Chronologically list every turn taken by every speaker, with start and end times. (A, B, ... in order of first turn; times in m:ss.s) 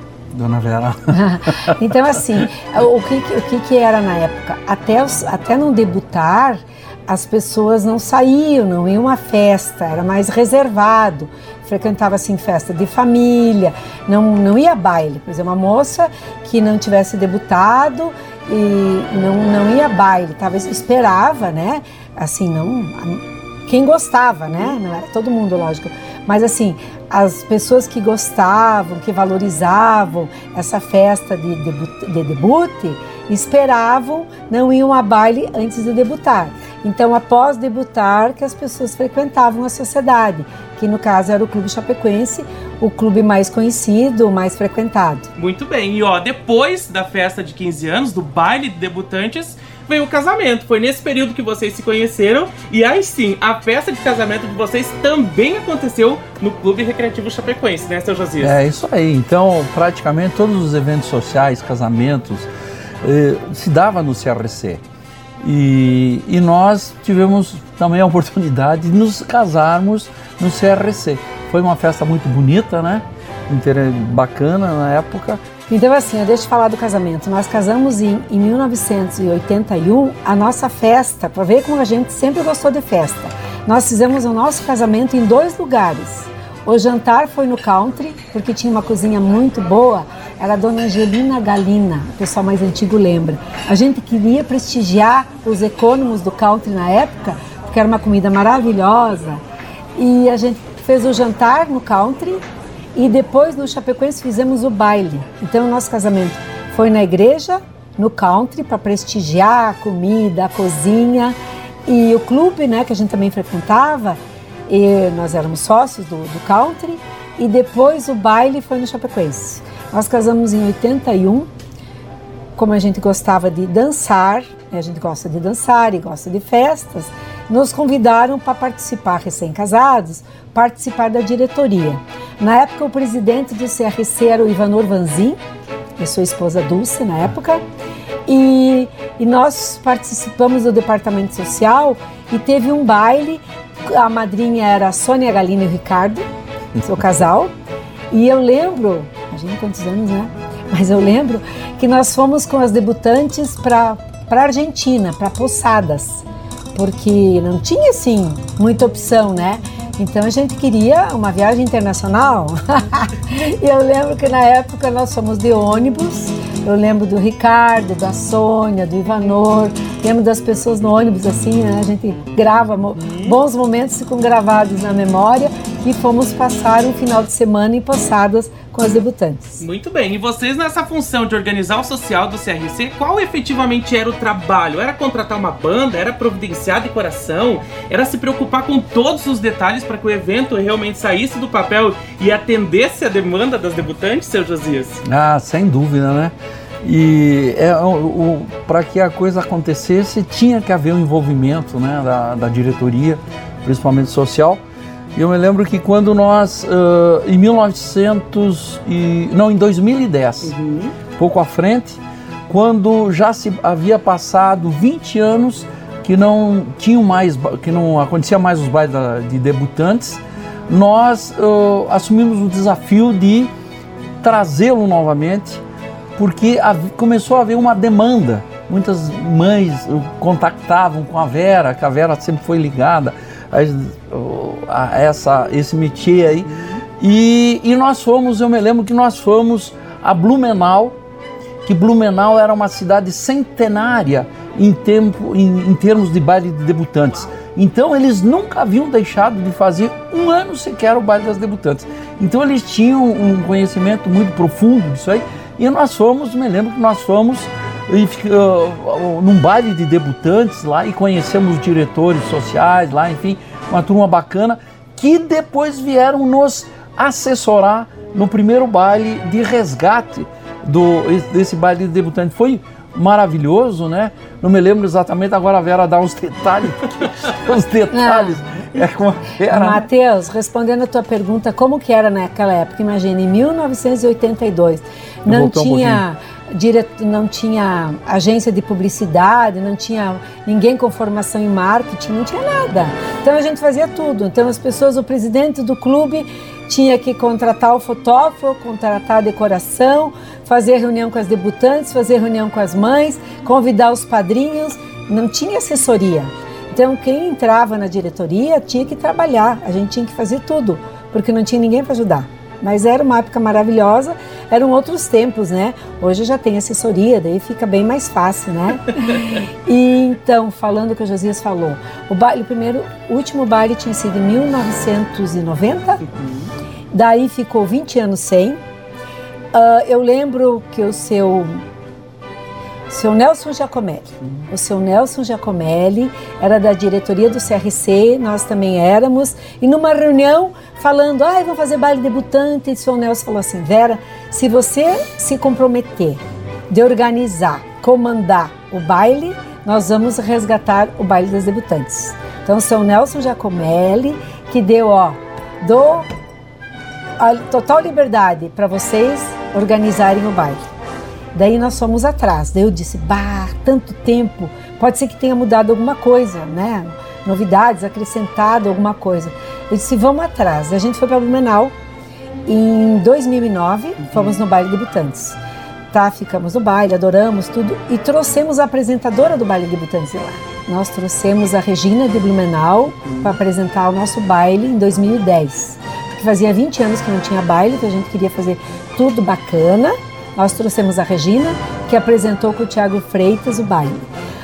0:00.3-0:01.8 A
0:01.1-0:45.3 B
0:45.4-0:58.5 C
0:58.4-1:02.5 A
1:03.0-1:04.8 A
1:05.4-1:15.4 A
1:15.7-1:39.4 B
1:40.0-1:42.4 B
1:42.9-2:01.5 B
2:02.6-2:15.4 B
2:16.0-2:17.6 B
2:18.3-2:26.2 B
2:26.8-2:27.5 B
2:28.1-2:59.6 B
2:53.0-2:53.3 C
2:59.6-3:15.0 C
3:15.0-3:24.6 A
3:25.1-3:30.5 A
3:30.4-3:30.9 C
3:31.2-3:43.5 A
3:44.2-3:45.6 A
3:46.2-4:01.0 A
4:01.6-4:39.8 A
4:37.9-4:38.4 B
4:39.5-5:26.0 B
4:45.3-4:46.0 A
5:26.1-5:26.5 C
5:26.9-5:28.6 B
5:29.5-5:31.6 B
5:32.9-5:56.1 B
5:57.2-6:00.6 B
6:01.3-6:11.7 B
6:12.5-6:15.4 B
6:14.0-6:14.4 C
6:15.9-6:34.1 B
6:23.1-6:23.4 C